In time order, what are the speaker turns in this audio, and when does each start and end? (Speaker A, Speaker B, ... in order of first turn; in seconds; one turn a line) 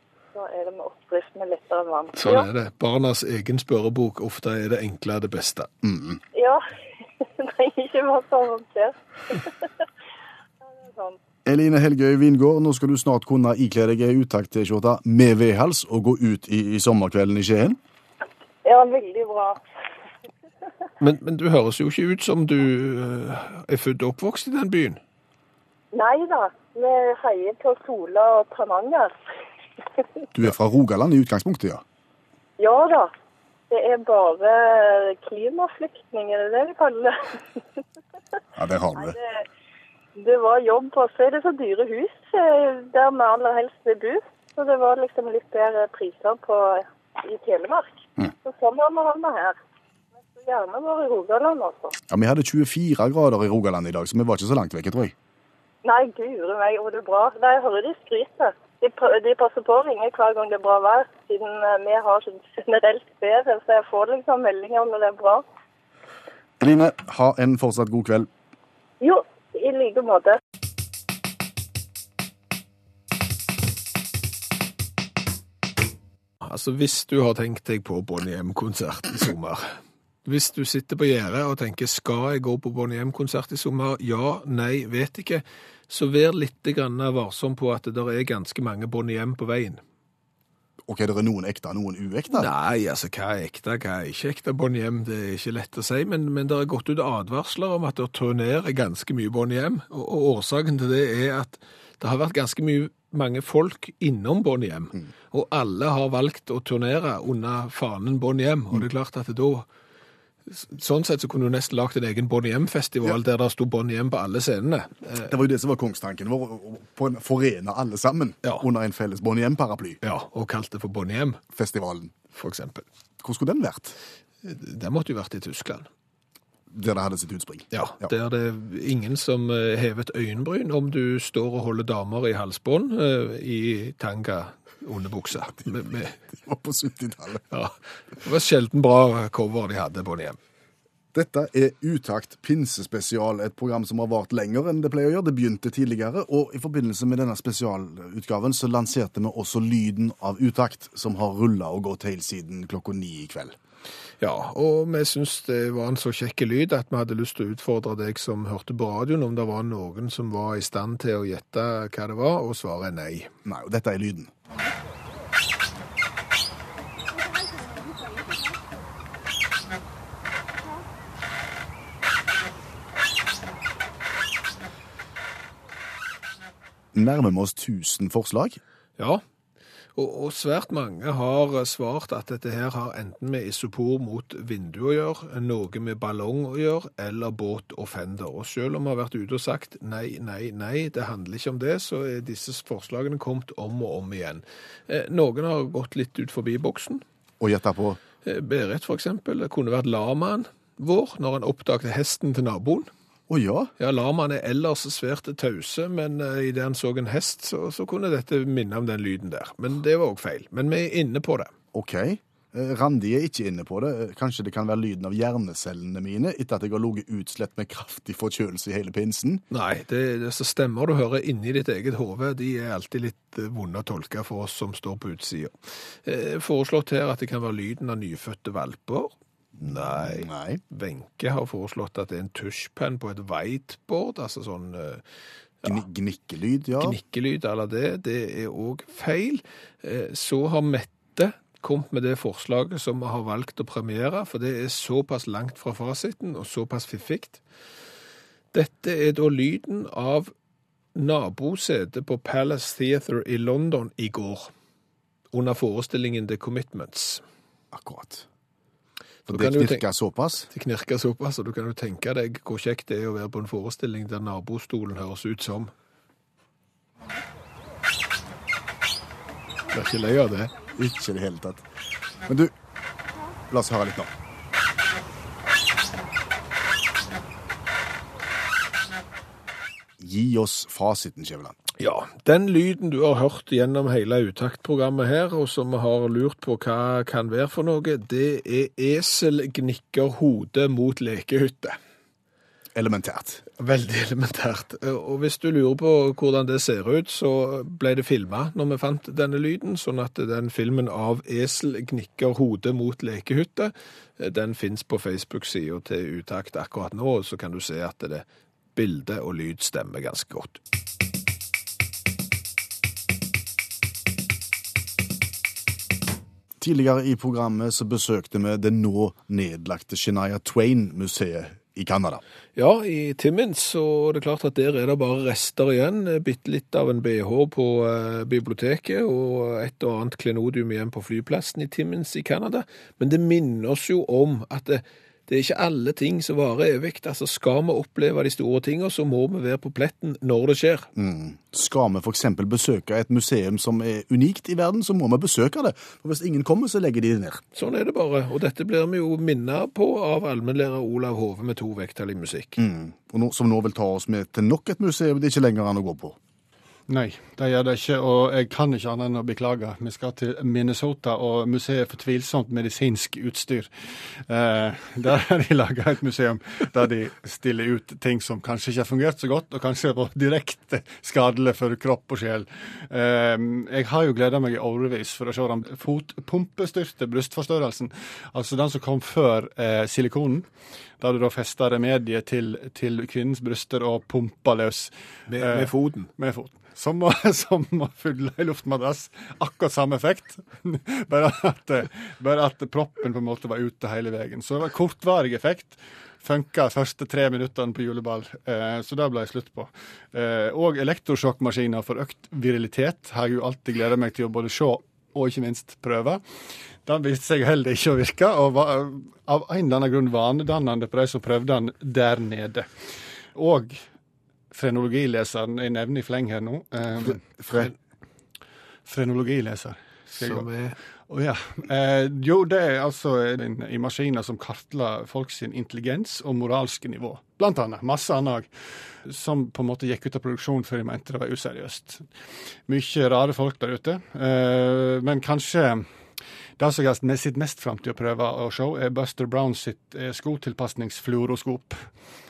Speaker A: 0.3-2.5
Speaker B: 2.2-5.7
Speaker C: 5.8-6.2
Speaker A: 6.3-6.6
Speaker A: 7.2-9.5
Speaker A: 10.6-11.2
Speaker C: 11.4-17.8
Speaker A: 18.6-19.6
Speaker B: 21.0-25.0
Speaker A: 25.9-29.1
Speaker C: 30.3-31.8
Speaker A: 32.6-33.1
Speaker A: 33.7-37.6
Speaker C: 38.5-39.2
Speaker A: 38.9-39.5
Speaker A: 40.2-49.6
Speaker A: 50.3-52.0
Speaker C: 52.1-55.1
Speaker A: 55.8-65.4
Speaker C: 66.6-68.3
Speaker A: 69.0-70.4
Speaker B: 76.4-89.8
Speaker C: 90.9-92.5
Speaker B: 92.3-109.7
Speaker B: 110.5-115.3
Speaker C: 115.2-120.0
Speaker B: 120.0-121.4
Speaker C: 121.5-122.1
Speaker B: 122.3-122.8
Speaker C: 123.2-124.0
Speaker B: 124.4-125.9
Speaker C: 126.7-128.1
Speaker B: 127.7-136.2
Speaker C: 135.5-137.4
Speaker B: 137.5-140.4
Speaker C: 141.1-153.6
Speaker B: 154.2-163.3
Speaker C: 163.4-164.3
Speaker C: 176.9-178.6
Speaker B: 180.0-197.0
Speaker C: 197.4-198.0
Speaker B: 198.2-202.9
Speaker C: 203.3-203.7
Speaker B: 203.8-211.5
Speaker C: 211.7-219.4
Speaker B: 219.5-235.0
Speaker C: 229.6-230.6
Speaker C: 235.6-237.0
Speaker B: 236.8-247.4
Speaker B: 248.5-250.3
Speaker B: 250.9-254.5
Speaker B: 255.3-257.2
Speaker C: 257.7-258.3
Speaker C: 259.3-260.5
Speaker B: 259.3-259.8
Speaker B: 260.5-265.7
Speaker B: 269.7-270.5
Speaker C: 270.8-271.6
Speaker C: 272.2-272.5
Speaker C: 273.5-274.1
Speaker C: 280.0-281.6
Speaker B: 281.8-291.8
Speaker C: 292.8-293.4
Speaker B: 293.6-308.2
Speaker B: 308.8-310.6
Speaker C: 316.6-322.2
Speaker B: 322.6-340.9
Speaker C: 340.9-347.4
Speaker B: 347.6-352.6
Speaker C: 352.6-356.2
Speaker D: 356.9-380.5
Speaker D: 381.0-406.2
Speaker B: 385.3-386.1
Speaker D: 406.8-412.7
Speaker D: 413.3-413.8
Speaker D: 414.5-417.2
Speaker C: 417.0-417.7
Speaker D: 418.9-420.5
Speaker B: 420.1-420.8
Speaker D: 421.1-432.1
Speaker D: 432.7-435.9
Speaker D: 436.6-441.9